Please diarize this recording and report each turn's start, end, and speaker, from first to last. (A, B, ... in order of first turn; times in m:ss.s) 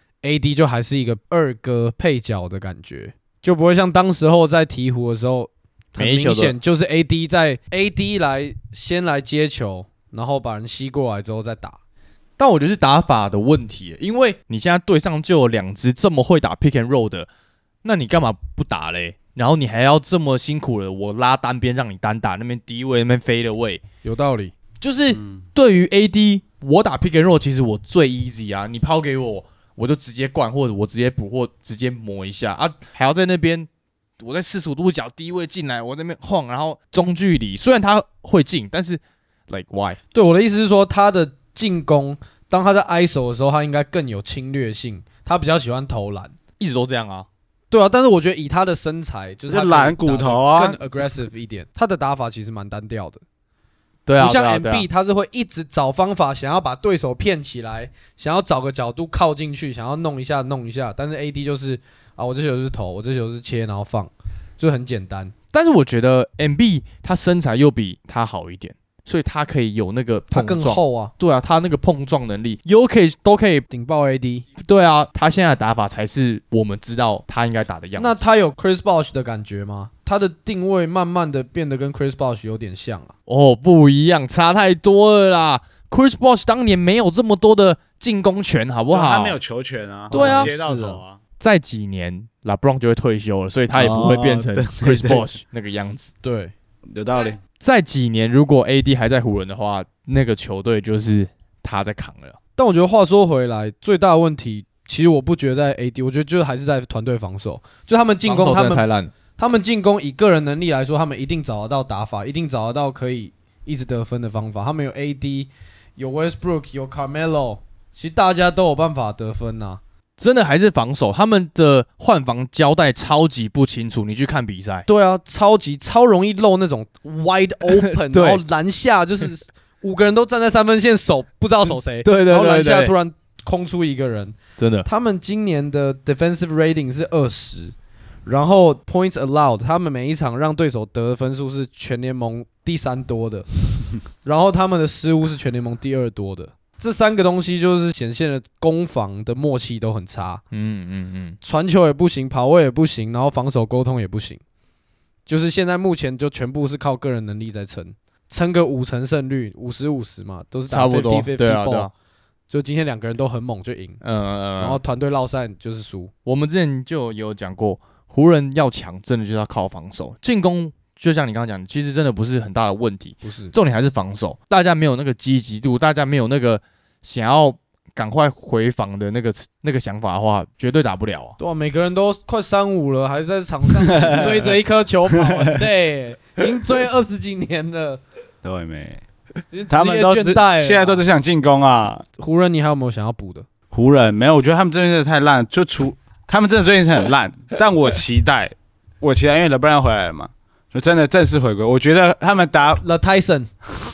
0:00.2-0:11.8 A
0:06.0-0:06.6 B
0:12.4-0:17.3 B
0:17.8-0:23.8 B
0:24.0-0:24.5 A
0:24.8-0:33.7 B
0:34.2-0:40.0 B
0:40.1-0:46.4 A
0:46.6-0:47.3 B
0:47.7-0:53.2 A
0:49.5-0:50.8 C
0:54.0-0:54.9 B
0:54.2-1:05.3 A
1:05.5-1:13.6 B
1:10.3-1:11.1 A
1:13.7-1:14.4 A
1:14.6-1:18.2 B
1:18.0-1:23.1 A
1:23.3-1:29.4 B
1:28.9-1:31.2 C
1:30.1-1:31.0 A
1:30.1-1:30.5 B
1:31.4-1:36.1 B
1:33.7-1:35.2 C
1:36.2-1:36.5 A
1:36.9-1:37.4 C
1:37.6-1:42.4 B
1:42.6-1:48.8 A
1:48.2-1:49.1 B
1:49.4-1:59.8 A
2:00.2-2:04.8 B
2:04.9-2:17.7 A
2:07.7-2:08.4 B
2:12.0-2:12.9 B
2:14.6-2:14.9 B
2:18.2-2:23.5 A
2:24.2-2:30.4 A
2:30.5-2:31.4 B
2:31.4-2:34.4 A
2:35.3-2:41.9 A
2:40.7-2:41.9 B
2:42.5-2:44.0 A
2:44.0-2:44.8 B
2:44.6-2:46.1 A
2:46.2-3:01.4 B
2:53.2-2:53.5 A
3:01.4-3:08.0 A
3:03.8-3:04.4 C
3:08.4-3:09.0 C
3:09.5-3:11.0 A
3:09.7-3:12.0 C
3:12.2-3:13.5 A
3:13.7-3:22.8 C
3:22.8-3:23.5 A